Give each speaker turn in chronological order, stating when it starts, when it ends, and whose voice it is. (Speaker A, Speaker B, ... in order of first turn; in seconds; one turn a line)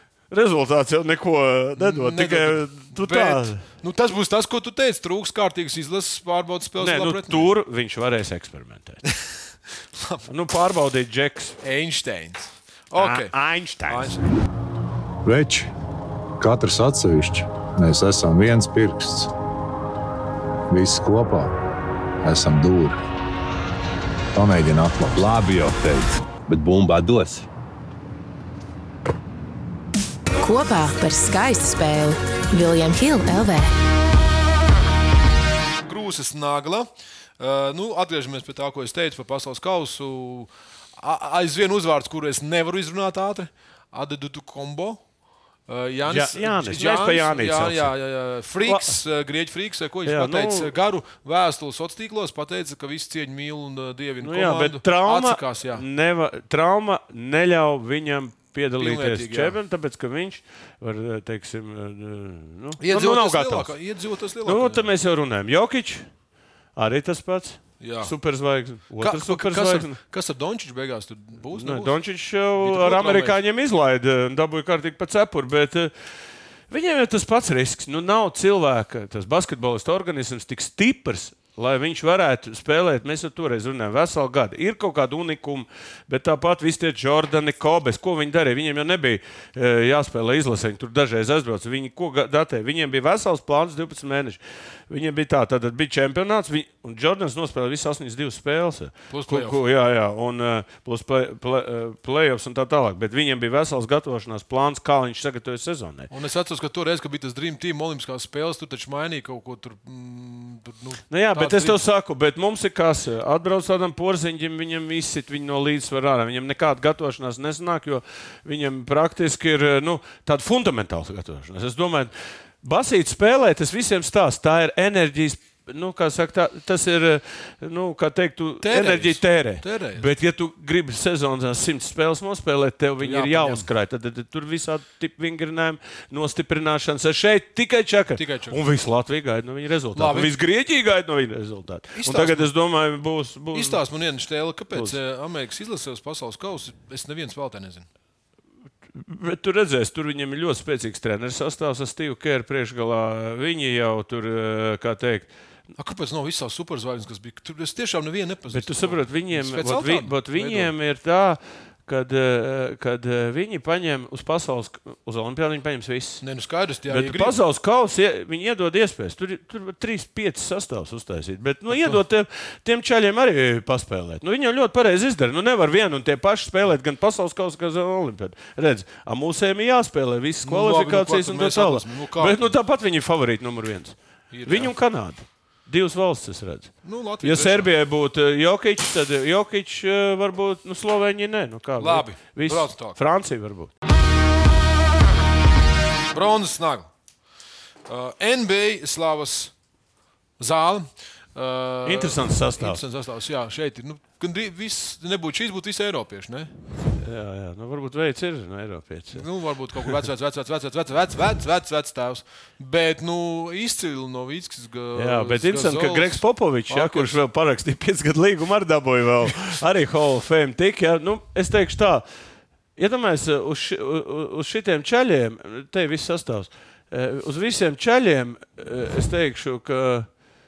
Speaker A: 0.3-3.6
Speaker B: 1.8-7.5
Speaker A: 6.8-9.0
Speaker B: 9.9-10.2
Speaker A: 10.3-11.6
Speaker B: 11.6-13.3
Speaker A: 12.9-14.1
Speaker B: 13.8-14.3
Speaker C: 16.4-19.2
Speaker C: 20.8-21.4
Speaker C: 22.3-22.9
Speaker C: 24.4-25.0
Speaker D: 25.1-27.5
Speaker E: 30.4-33.7
Speaker B: 35.9-45.0
Speaker B: 45.7-55.8
Speaker A: 46.1-47.9
Speaker A: 48.6-48.9
Speaker A: 50.0-50.7
Speaker A: 54.2-63.7
Speaker B: 58.8-59.6
Speaker B: 62.8-64.9
Speaker A: 64.4-66.0
Speaker A: 66.8-70.0
Speaker B: 67.8-68.1
Speaker B: 69.0-72.0
Speaker A: 71.5-75.9
Speaker B: 72.6-73.4
Speaker A: 76.7-106.1
Speaker B: 99.1-99.6
Speaker B: 106.1-111.8
Speaker A: 111.1-143.8
Speaker B: 128.6-130.1
Speaker B: 133.0-133.7
Speaker B: 138.2-138.6
Speaker B: 139.9-140.3
Speaker B: 141.9-142.5
Speaker B: 143.5-147.9
Speaker A: 148.9-155.3
Speaker B: 155.8-160.7
Speaker A: 158.5-166.2
Speaker B: 166.2-167.3
Speaker A: 166.9-193.7
Speaker B: 171.7-172.0
Speaker B: 180.4-182.5
Speaker B: 184.3-184.7
Speaker B: 186.8-187.7
Speaker B: 191.8-193.0
Speaker B: 196.1-196.9
Speaker B: 197.9-199.5
Speaker B: 200.4-206.5
Speaker A: 201.8-202.8
Speaker A: 207.0-209.2
Speaker B: 209.1-217.2
Speaker A: 214.9-222.1
Speaker A: 222.8-230.1